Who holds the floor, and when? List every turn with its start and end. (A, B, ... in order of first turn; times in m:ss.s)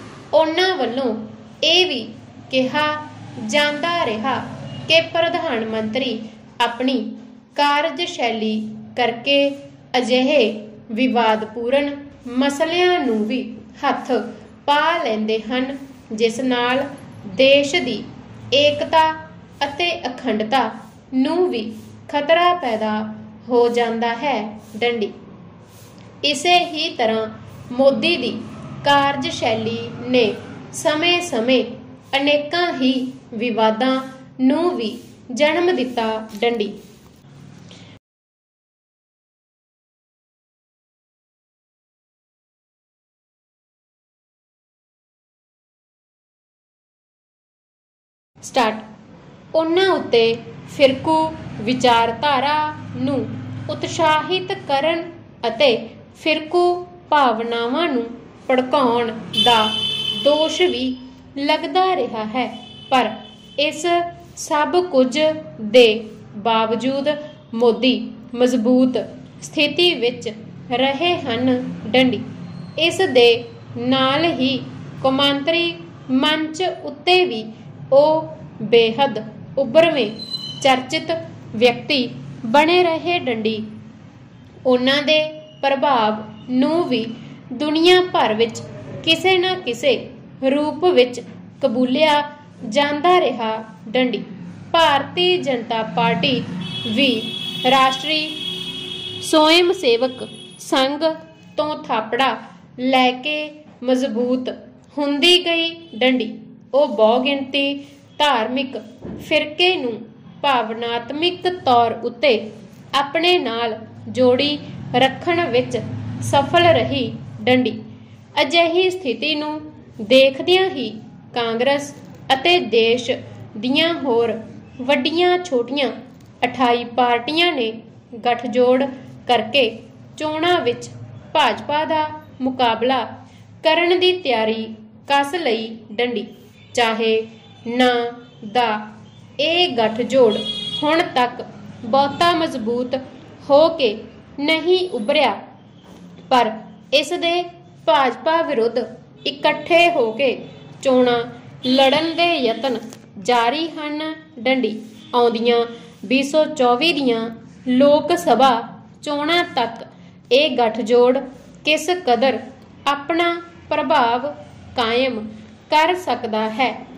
0:00.3-0:25.1 A
0:26.2-0:36.8 A
0:48.4-0:48.9 A
0:49.5-1:12.2 A
1:12.8-1:23.7 A
1:24.6-1:38.4 A
1:39.2-1:57.8 A
1:58.3-2:13.1 A
2:13.6-2:25.4 A
2:26.3-2:46.8 A